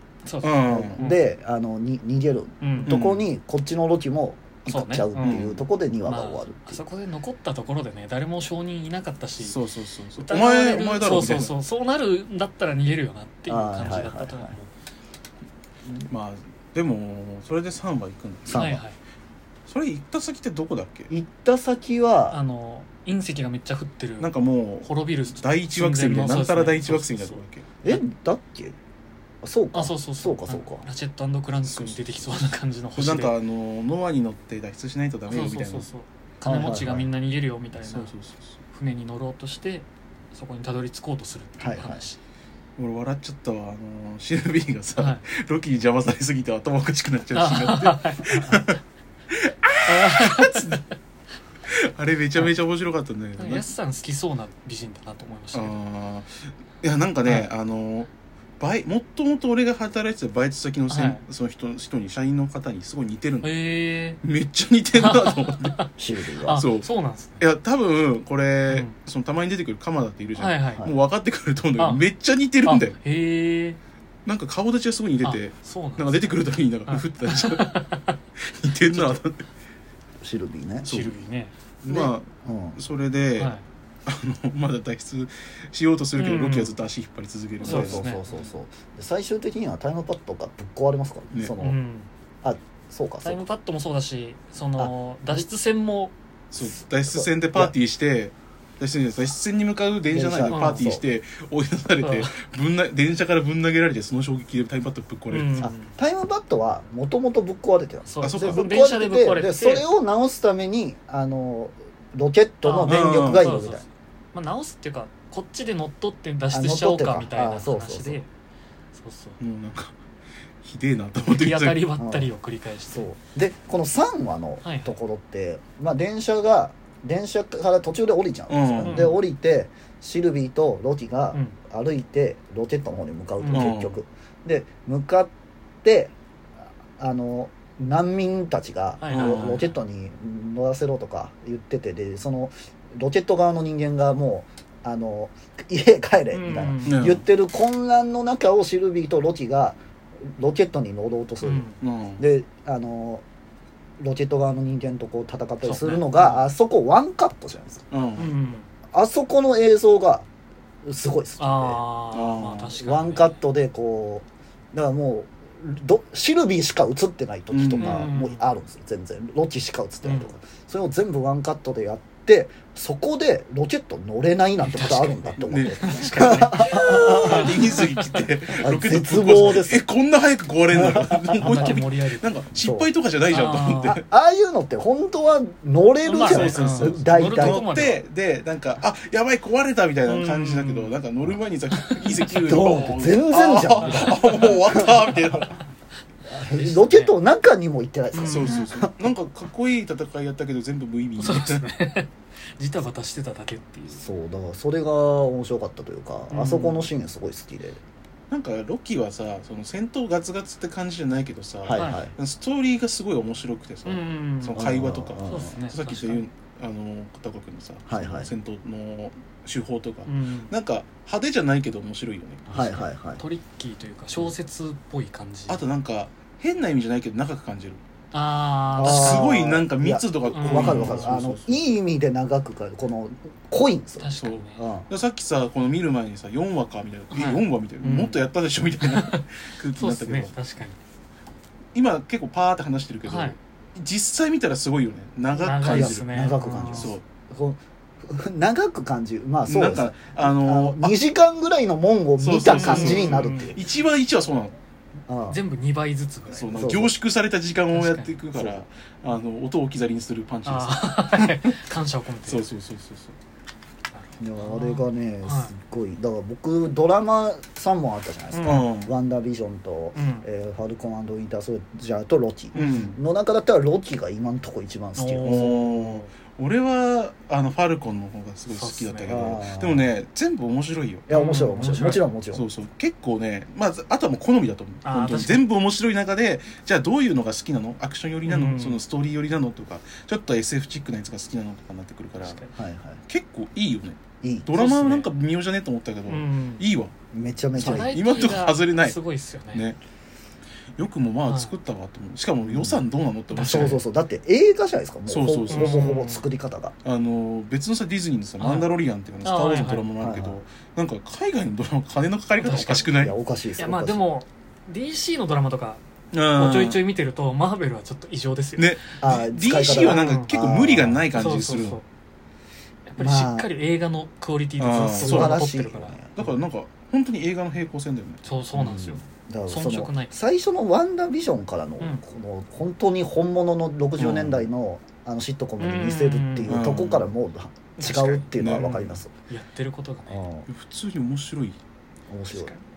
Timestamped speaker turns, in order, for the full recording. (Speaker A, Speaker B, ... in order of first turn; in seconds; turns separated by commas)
Speaker A: 0.2-1.2, Speaker B: 0.4-1.0, Speaker C: 0.6-6.8, Speaker A: 2.6-2.9, Speaker B: 2.9-3.3, Speaker A: 4.7-5.5, Speaker B: 5.2-5.7, Speaker A: 6.0-9.6, Speaker B: 9.4-11.5, Speaker A: 10.2-14.7, Speaker C: 13.5-14.6, Speaker B: 16.1-18.7, Speaker C: 18.4-18.8, Speaker A: 18.5-19.0, Speaker B: 19.6-21.1, Speaker C: 21.1-22.4, Speaker A: 22.3-28.0, Speaker B: 24.2-27.7, Speaker C: 27.8-28.8, Speaker C: 29.4-30.8, Speaker A: 29.7-33.3, Speaker B: 31.6-32.4, Speaker B: 32.9-35.9, Speaker A: 35.3-38.1, Speaker C: 36.4-37.1, Speaker B: 37.8-38.6, Speaker A: 38.7-42.2, Speaker C: 41.6-42.0, Speaker B: 42.8-50.8, Speaker A: 45.0-45.2, Speaker A: 47.3-48.6, Speaker A: 49.9-50.9, Speaker B: 51.7-53.7, Speaker A: 53.4-55.8, Speaker B: 55.5-58.1, Speaker A: 57.2-57.5, Speaker B: 58.6-63.5, Speaker A: 60.9-61.2, Speaker A: 63.4-64.2, Speaker B: 64.2-65.8, Speaker A: 64.9-67.4, Speaker C: 66.0-66.7, Speaker B: 66.6-73.0, Speaker A: 68.7-68.9, Speaker A: 70.4-70.9, Speaker A: 72.6-73.8, Speaker B: 74.2-77.8, Speaker A: 75.2-78.2, Speaker B: 78.4-79.5, Speaker C: 78.9-79.2, Speaker C: 80.2-80.9, Speaker B: 80.8-81.1, Speaker A: 80.8-81.5, Speaker B: 81.8-83.5, Speaker C: 81.8-82.8, Speaker A: 83.4-83.6, Speaker B: 84.0-88.1, Speaker A: 86.2-86.8, Speaker C: 87.6-91.8, Speaker A: 87.6-88.5, Speaker A: 91.6-92.1, Speaker C: 92.4-93.4, Speaker A: 93.2-96.1, Speaker C: 94.8-95.5, Speaker B: 96.5-105.7, Speaker C: 96.6-97.7, Speaker C: 100.1-101.0, Speaker A: 100.5-100.9, Speaker A: 102.0-102.4, Speaker A: 105.3-105.9, Speaker C: 105.6-113.8, Speaker A: 108.0-109.9, Speaker B: 108.2-108.7, Speaker A: 112.6-118.3, Speaker B: 112.8-113.5, Speaker C: 116.5-118.2, Speaker A: 118.9-119.4, Speaker B: 119.4-119.9, Speaker B: 120.6-121.9, Speaker A: 121.3-123.1, Speaker C: 122.0-122.3, Speaker C: 122.9-135.3, Speaker A: 124.6-125.0, Speaker B: 128.5-129.1, Speaker A: 128.8-129.2, Speaker A: 133.4-133.7, Speaker B: 133.5-134.0, Speaker C: 135.8-136.1, Speaker C: 137.0-149.8, Speaker A: 139.0-139.7, Speaker B: 139.1-139.7, Speaker A: 146.3-147.1, Speaker B: 146.8-147.2, Speaker C: 150.3-153.2, Speaker A: 151.4-151.8, Speaker B: 151.8-152.2, Speaker C: 154.0-157.8, Speaker A: 155.6-156.4, Speaker B: 157.9-158.3, Speaker A: 158.2-158.7, Speaker C: 158.9-160.2, Speaker C: 160.8-161.8, Speaker A: 161.4-163.4, Speaker B: 162.1-162.8, Speaker C: 162.8-177.9, Speaker B: 167.5-168.1, Speaker A: 167.8-168.4, Speaker A: 170.0-170.3, Speaker A: 174.6-178.2, Speaker B: 175.4-184.0, Speaker C: 178.6-179.8, Speaker C: 180.7-181.7, Speaker A: 181.4-182.4, Speaker C: 182.6-182.9, Speaker A: 183.3-184.0, Speaker C: 184.1-187.7, Speaker A: 186.1-188.0, Speaker B: 186.1-195.6, Speaker A: 190.1-191.0, Speaker A: 191.8-193.0, Speaker C: 192.4-195.4, Speaker A: 193.8-195.1, Speaker C: 196.3-199.1, Speaker A: 196.5-197.2, Speaker A: 198.1-198.7, Speaker B: 198.2-201.7, Speaker A: 201.2-204.1, Speaker C: 203.9-207.8, Speaker A: 206.3-206.9, Speaker B: 208.3-222.8, Speaker C: 211.6-212.1, Speaker A: 211.7-212.1, Speaker A: 213.8-214.7, Speaker C: 214.6-215.6, Speaker A: 215.2-216.2, Speaker C: 217.9-218.3, Speaker A: 220.1-220.5, Speaker C: 222.5-223.2, Speaker A: 223.2-225.6, Speaker B: 225.5-227.8, Speaker A: 228.1-229.4, Speaker C: 228.7-234.9, Speaker B: 228.8-231.6, Speaker A: 230.3-231.1, Speaker A: 234.0-234.7, Speaker B: 234.2-240.3, Speaker A: 237.1-238.3, Speaker A: 238.8-240.8, Speaker B: 241.7-246.1, Speaker A: 243.0-243.3, Speaker A: 245.4-246.9, Speaker C: 245.6-253.6, Speaker B: 246.7-247.0, Speaker B: 249.4-250.9, Speaker B: 252.2-254.6, Speaker A: 252.4-253.5, Speaker C: 255.1-255.4, Speaker A: 255.3-256.6, Speaker B: 256.3-261.4, Speaker C: 256.5-256.9, Speaker A: 257.7-258.1, Speaker C: 258.3-258.6, Speaker A: 260.4-262.4, Speaker B: 262.2-263.1, Speaker A: 263.9-265.5, Speaker C: 264.2-275.6, Speaker A: 268.3-268.7, Speaker B: 268.4-268.9, Speaker A: 269.9-270.2, Speaker A: 272.5-272.9, Speaker B: 272.5-273.0, Speaker A: 274.9-276.1, Speaker B: 275.2-281.1, Speaker A: 278.5-279.2, Speaker C: 279.1-279.9, Speaker C: 281.1-282.4, Speaker A: 281.1-282.1, Speaker B: 282.3-292.4, Speaker A: 284.8-285.4, Speaker A: 288.2-288.8, Speaker A: 292.2-292.5, Speaker C: 292.5-293.0, Speaker B: 293.1-296.9, Speaker C: 294.2-294.5, Speaker A: 294.5-295.1, Speaker A: 296.1-296.6, Speaker C: 297.1-298.0, Speaker A: 297.6-299.7, Speaker B: 297.6-299.0, Speaker B: 299.5-299.8, Speaker B: 300.8-303.8, Speaker A: 301.3-301.5, Speaker C: 302.4-302.8, Speaker A: 303.3-303.8, Speaker C: 303.4-306.8, Speaker B: 305.1-306.0, Speaker A: 305.5-306.3, Speaker B: 306.8-313.1, Speaker A: 308.4-309.9, Speaker C: 310.0-310.4, Speaker A: 312.4-312.9, Speaker C: 312.9-314.0, Speaker A: 313.6-315.8, Speaker B: 316.1-316.8, Speaker A: 316.3-318.8, Speaker B: 318.6-321.8, Speaker C: 319.0-321.1, Speaker A: 319.6-320.3, Speaker A: 321.1-321.8, Speaker A: 322.9-326.0, Speaker C: 323.0-323.5, Speaker B: 324.6-325.5, Speaker C: 324.8-326.3, Speaker B: 326.1-328.2, Speaker A: 328.2-330.1, Speaker C: 328.5-339.1, Speaker B: 334.0-334.5, Speaker A: 335.6-336.6, Speaker B: 336.5-337.1, Speaker A: 337.8-338.6, Speaker B: 337.8-339.0, Speaker A: 339.3-340.2, Speaker C: 340.1-340.5, Speaker B: 340.5-341.6, Speaker C: 342.1-342.5, Speaker A: 342.3-342.6